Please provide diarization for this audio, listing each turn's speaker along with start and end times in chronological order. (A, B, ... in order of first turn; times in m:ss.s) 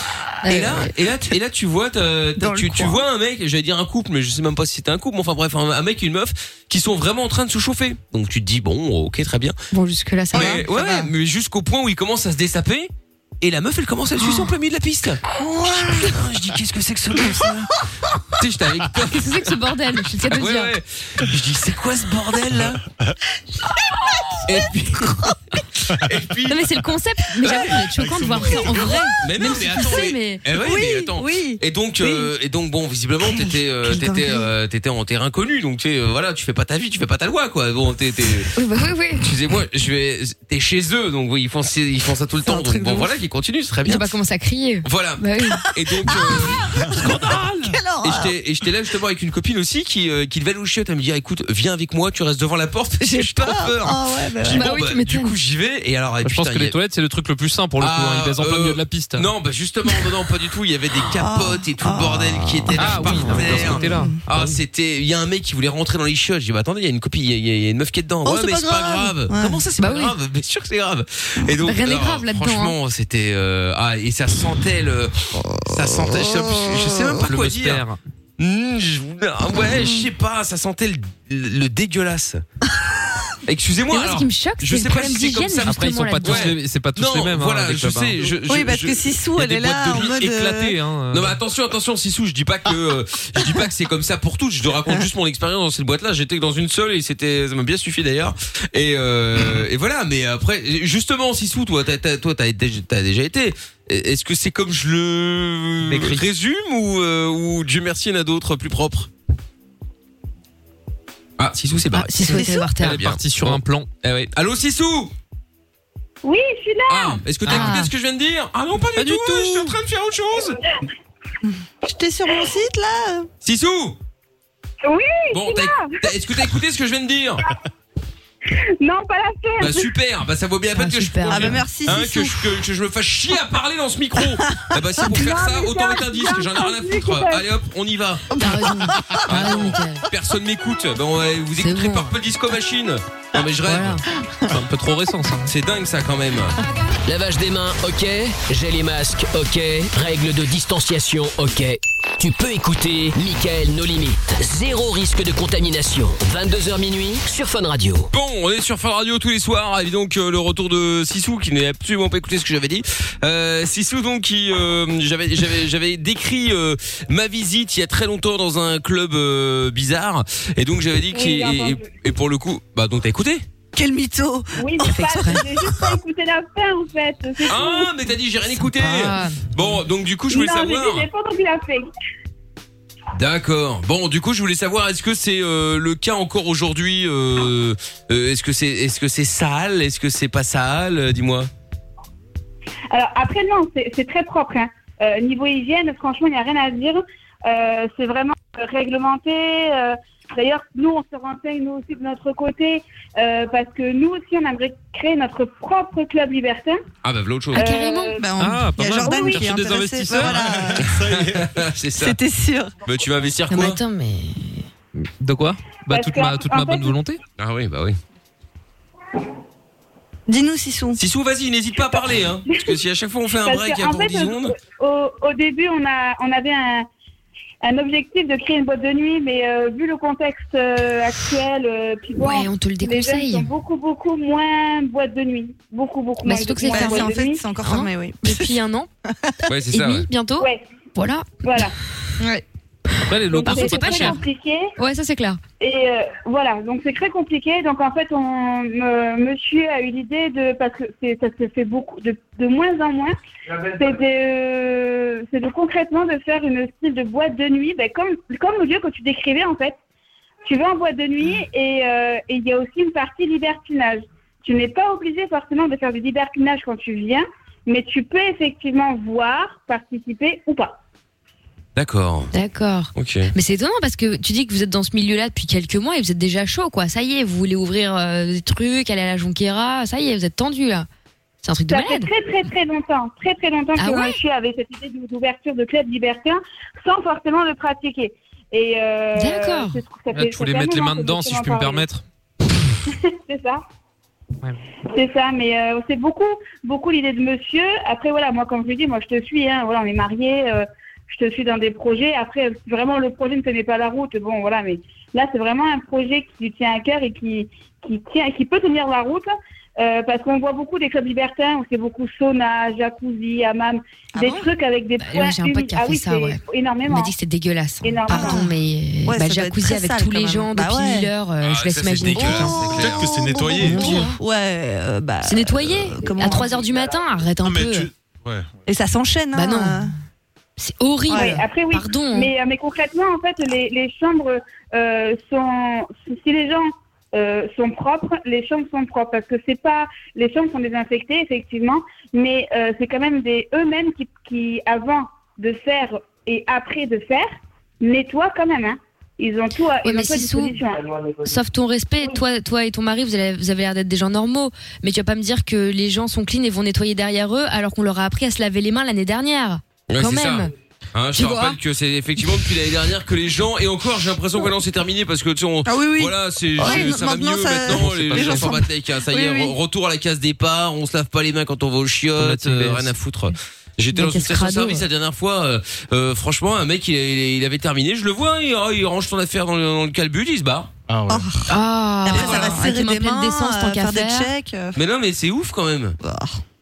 0:00.4-0:09.6 A
0:00.4-0:00.9 B
0:02.4-0:03.0 C
0:09.7-0:11.1 B
0:10.3-0:12.9 A
0:10.3-0:10.6 C
0:13.4-0:17.8 A
0:15.6-0:16.1 C
0:18.4-0:19.6 A
0:19.0-0:20.8 B
0:20.3-0:22.8 A
0:24.4-0:25.4 A
0:25.9-0:26.8 A
0:26.5-0:30.4 B
0:27.4-0:27.8 A
0:28.0-0:29.0 D
0:29.2-0:38.5 A
0:30.5-0:32.3 C
0:33.2-0:33.6 C
0:34.0-0:34.4 B
0:38.6-0:39.2 B
0:39.2-0:44.1 A
0:42.4-0:43.1 C
0:43.8-0:45.6 B
0:44.8-0:56.8 A
0:46.0-0:48.3 C
0:53.0-0:54.7 C
0:54.5-0:55.3 B
0:56.2-0:59.3 E
0:57.8-1:17.8 A
1:01.2-1:04.2 C
1:02.8-1:04.6 E
1:08.2-1:09.6 C
1:09.8-1:10.2 B
1:11.6-1:12.8 B
1:16.1-1:17.2 C
1:17.2-1:18.0 E
1:18.4-1:22.4 A
1:23.5-1:30.2 A
1:23.9-1:26.5 B
1:25.7-1:28.2 E
1:28.5-1:30.8 C
1:29.4-1:31.4 E
1:31.1-1:49.1 A
1:45.8-1:46.2 E
1:51.4-1:55.1 A
1:51.9-1:53.0 B
1:52.2-1:52.8 C
1:52.8-1:53.9 E
1:56.2-1:57.2 F
1:56.9-2:00.6 A
1:57.5-1:57.8 E
1:57.5-1:57.9 B
1:59.0-1:59.8 E
2:01.5-2:03.3 C
2:03.4-2:04.0 A
2:04.8-2:06.0 F
2:05.3-2:07.5 A
2:08.5-2:09.9 F
2:09.6-2:18.3 A
2:10.7-2:11.6 B
2:11.3-2:12.5 C
2:15.1-2:17.4 F
2:18.3-2:19.2 C
2:18.4-2:20.0 B
2:19.2-2:24.0 A
2:21.6-2:22.1 B
2:23.7-2:24.0 B
2:24.5-2:25.5 E
2:25.5-2:26.6 A
2:27.1-2:38.1 G
2:38.1-2:53.4 A
2:51.1-2:51.9 F
2:53.8-2:56.0 C
2:54.6-2:57.9 F
2:57.5-3:01.1 A
2:58.6-2:59.5 B
3:00.3-3:01.8 F
3:03.2-3:11.5 A
3:12.9-3:26.8 F
3:27.0-3:27.7 A
3:27.5-3:28.2 B
3:27.5-3:28.3 F
3:28.2-3:30.9 C
3:28.4-3:30.4 E
3:29.0-3:29.4 F
3:30.2-3:31.7 D
3:30.8-3:32.2 A
3:32.0-3:32.7 C
3:32.9-3:33.8 A
3:33.5-3:34.6 B
3:35.0-3:37.2 E
3:35.9-3:37.0 F
3:37.4-3:38.0 A
3:40.3-3:41.0 C
3:41.0-3:44.6 A
3:42.5-3:42.8 F
3:43.4-3:46.9 F
3:47.6-3:57.4 F
3:52.2-3:53.5 B
3:56.2-3:58.9 B
3:56.7-3:58.6 C
3:59.1-3:59.4 C
3:59.5-4:00.1 A
3:59.7-4:01.6 B
4:01.4-4:01.7 F
4:03.1-4:04.2 E
4:03.3-4:04.7 F
4:03.3-4:04.2 B
4:04.8-4:05.4 B
4:05.6-4:13.2 F
4:13.7-4:19.8 F
4:20.5-4:30.8 F
4:31.8-4:32.3 A
4:32.3-4:40.9 B
4:33.0-4:33.3 A
4:41.4-4:42.1 B
4:41.7-4:51.9 F
4:43.8-4:44.2 B
4:49.2-4:49.8 B
4:50.1-4:52.0 E
4:52.9-4:53.6 F
4:54.9-5:17.1 F
5:14.2-5:14.5 C
5:15.0-5:22.7 B
5:17.8-5:18.4 F
5:18.1-5:21.1 C
5:21.4-5:23.1 A
5:22.1-5:26.5 C
5:22.8-5:24.1 D
5:23.6-5:24.2 B
5:25.2-5:27.9 B
5:27.4-5:28.5 D
5:28.7-5:29.9 C
5:29.3-5:29.9 B
5:30.6-5:32.3 B
5:31.1-5:31.4 C
5:31.2-5:50.9 F
5:49.8-5:50.6 B
5:51.2-6:00.5 B
5:59.9-6:20.7 A
6:01.2-6:01.6 B
6:05.7-6:09.6 C
6:07.7-6:08.6 E
6:12.2-6:13.0 E
6:13.9-6:14.8 B
6:20.9-6:21.3 D
6:21.1-6:24.8 C
6:21.5-6:24.3 B
6:22.2-6:22.5 A
6:24.8-6:26.0 A
6:26.0-6:26.4 C